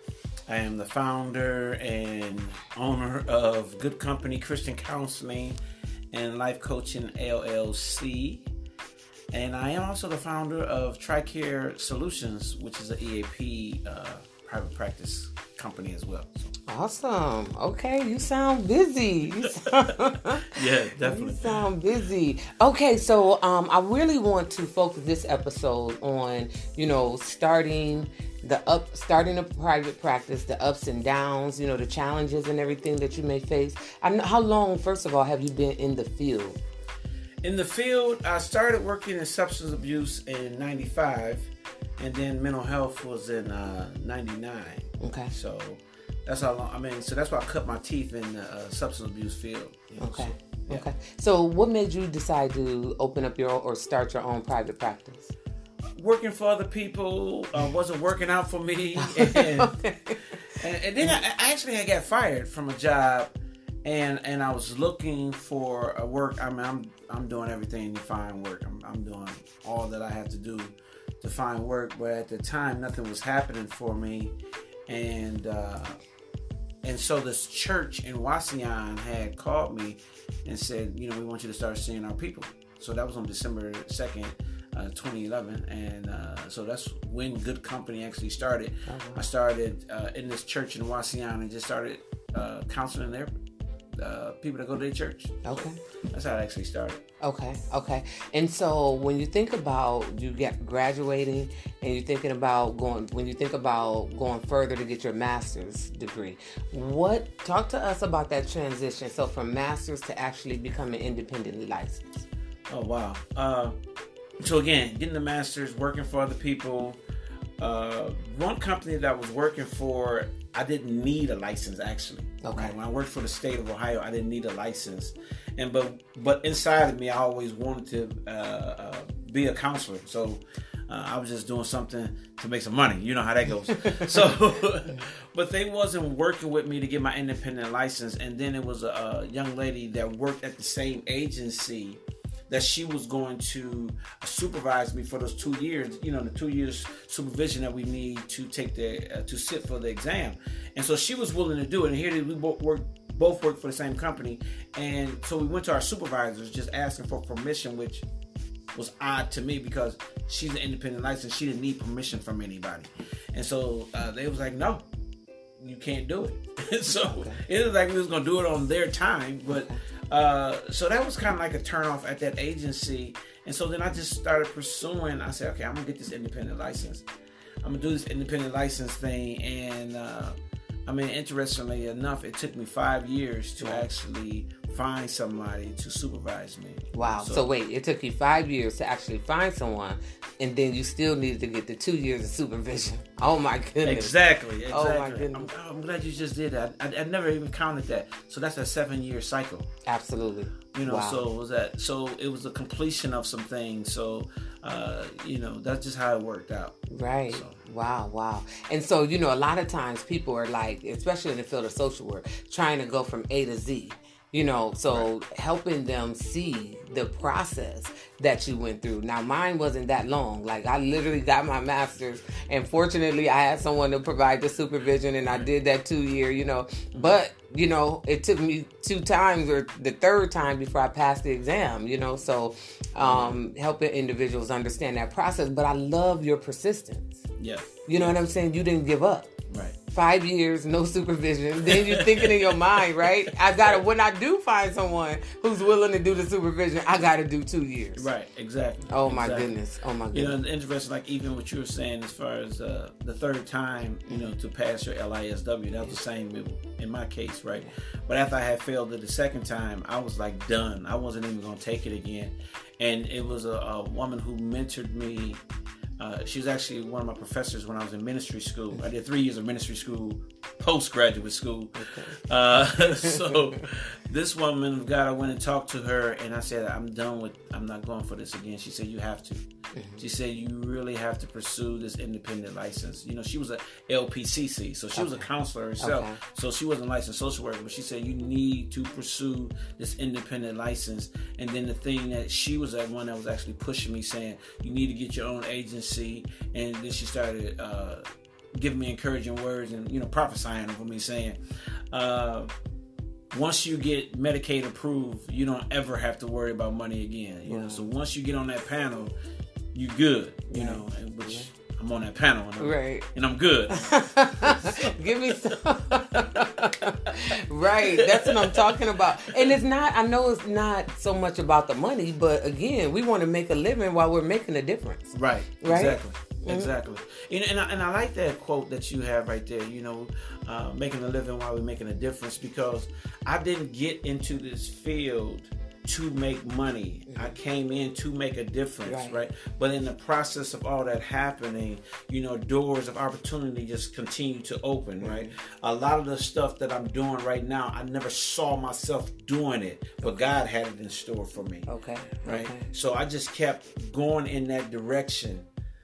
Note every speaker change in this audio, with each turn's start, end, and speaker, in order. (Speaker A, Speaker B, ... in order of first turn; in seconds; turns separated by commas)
Speaker A: 0.5-5.6, Speaker A: 6.1-8.5, Speaker A: 9.3-16.5, Speaker B: 16.7-36.6, Speaker A: 19.4-21.6, Speaker A: 37.4-50.8, Speaker B: 45.0-45.3, Speaker B: 50.0-55.3, Speaker A: 56.0-59.8, Speaker B: 59.0-60.6, Speaker A: 60.6-63.3, Speaker A: 63.8-74.3, Speaker A: 74.9-76.0, Speaker A: 76.8-93.3, Speaker B: 88.8-89.2, Speaker A: 93.9-97.0, Speaker B: 95.4-95.8, Speaker B: 97.2-112.2, Speaker A: 112.7-113.8, Speaker A: 114.4-117.0, Speaker A: 117.6-158.1, Speaker B: 122.4-122.8, Speaker B: 133.7-134.1, Speaker A: 158.7-164.8, Speaker A: 165.6-177.1, Speaker B: 166.9-167.4, Speaker B: 169.5-169.8, Speaker A: 177.6-187.4, Speaker B: 183.6-183.8, Speaker B: 186.9-194.1, Speaker A: 193.8-199.7, Speaker B: 194.7-195.5, Speaker B: 199.8-201.2, Speaker A: 200.7-206.8, Speaker B: 206.9-237.2, Speaker A: 207.3-207.6, Speaker A: 233.0-233.4, Speaker A: 237.4-238.2, Speaker B: 237.9-239.3, Speaker A: 239.5-239.8, Speaker B: 239.9-248.1, Speaker A: 241.6-243.8, Speaker A: 247.9-249.5, Speaker B: 248.9-250.4, Speaker A: 250.1-265.4, Speaker A: 266.0-279.4, Speaker B: 271.7-272.1, Speaker B: 272.8-273.4, Speaker B: 279.7-280.0, Speaker A: 280.0-301.4, Speaker B: 284.9-285.2, Speaker B: 285.8-286.2, Speaker A: 301.9-302.5, Speaker A: 303.3-309.1, Speaker B: 307.5-307.9, Speaker A: 309.7-319.5, Speaker B: 310.5-311.5, Speaker B: 312.6-313.1, Speaker B: 313.7-326.7, Speaker A: 325.1-351.7, Speaker B: 338.9-339.2, Speaker B: 345.0-345.3, Speaker B: 351.7-352.7, Speaker A: 352.2-355.4